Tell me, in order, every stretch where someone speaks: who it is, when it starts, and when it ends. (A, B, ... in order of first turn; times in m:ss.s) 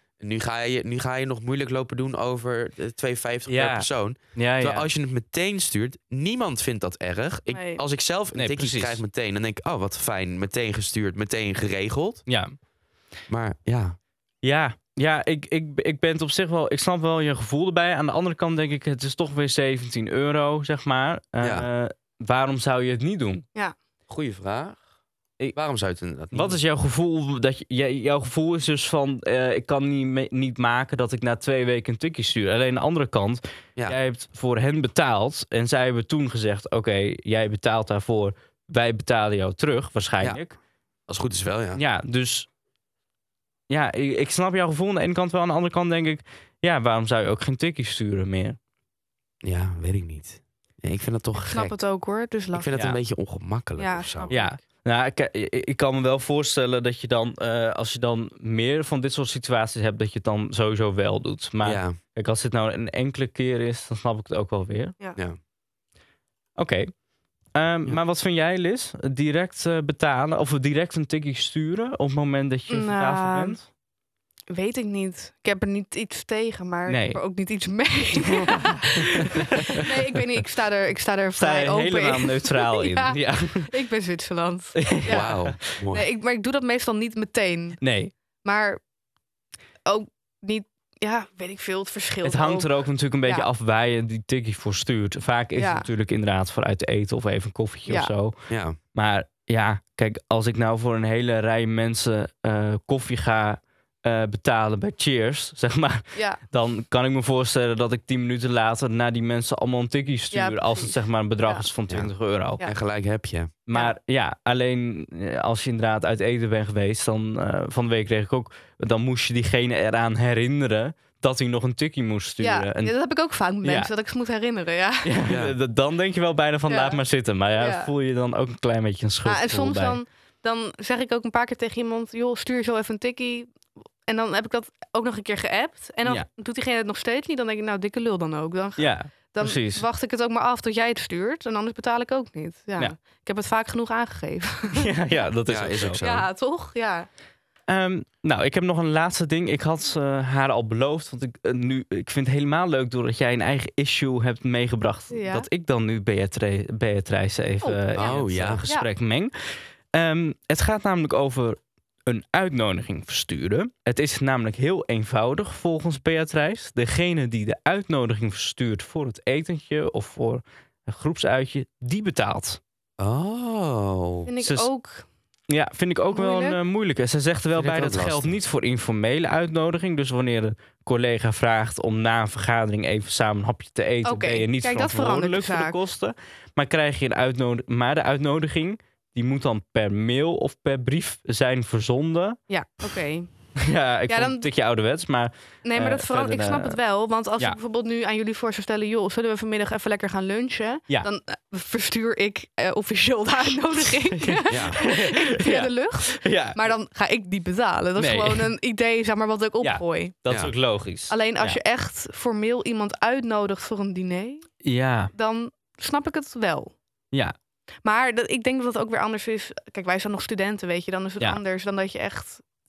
0:00.2-0:12.2 A
0:03.5-0:04.8 B
0:07.5-0:07.8 C
0:08.3-0:09.0 B
0:12.3-0:12.5 B
0:13.3-0:14.0 A
0:14.4-0:23.4 B
0:21.4-0:21.7 A
0:24.1-0:24.8 A
0:25.5-0:26.6 A
0:26.3-0:40.5 B
0:41.1-0:41.8 A
0:41.8-0:42.5 B
0:43.7-0:48.6 B
0:49.4-0:51.8 A
0:51.4-0:52.7 C
0:52.5-0:54.4 A
0:53.8-0:54.6 C
0:54.3-1:04.9 B
1:01.6-1:02.0 A
1:06.6-1:06.9 B
1:07.5-1:13.7 B
1:12.7-1:13.6 C
1:14.5-1:25.3 C
1:16.9-1:17.2 B
1:18.2-1:20.2 B
1:21.4-1:23.7 B
1:24.8-1:25.6 B
1:25.0-1:26.0 A
1:25.9-1:27.8 C
1:27.8-1:28.1 B
1:28.4-1:28.8 C
1:29.8-1:32.7 C
1:32.2-1:52.6 B
1:35.6-1:35.9 C
1:37.9-1:38.1 C
1:38.5-1:38.8 A
1:46.1-1:46.4 C
1:50.3-1:51.6 C
1:51.9-1:53.5 A
1:53.7-2:02.9 B
2:02.4-2:05.1 C
2:03.6-2:03.9 B
2:05.0-2:10.0 B
2:05.2-2:05.5 A
2:06.7-2:07.0 C
2:07.6-2:07.9 C
2:09.2-2:25.2 C
2:18.8-2:19.8 B
2:24.7-2:26.0 B
2:25.5-2:26.3 A
2:26.0-2:27.1 C
2:27.7-2:52.6 B
2:35.1-2:35.5 C
2:37.6-2:38.9 C
2:37.9-2:38.6 A
2:53.0-2:54.3 A
2:54.2-2:55.0 C
2:54.4-2:54.7 B
2:55.5-3:12.4 B
2:56.1-2:56.6 C
2:57.5-2:58.3 A
3:04.0-3:05.8 C
3:12.5-3:13.3 C
3:13.6-3:16.8 B
3:14.1-3:14.5 C
3:15.6-3:30.2 C
3:24.0-3:26.6 B
3:24.5-3:24.8 A
3:28.0-3:28.5 B
3:29.6-3:31.6 B
3:31.1-3:34.4 C
3:34.6-3:35.1 B
3:35.1-3:36.7 C
3:37.8-3:42.4 C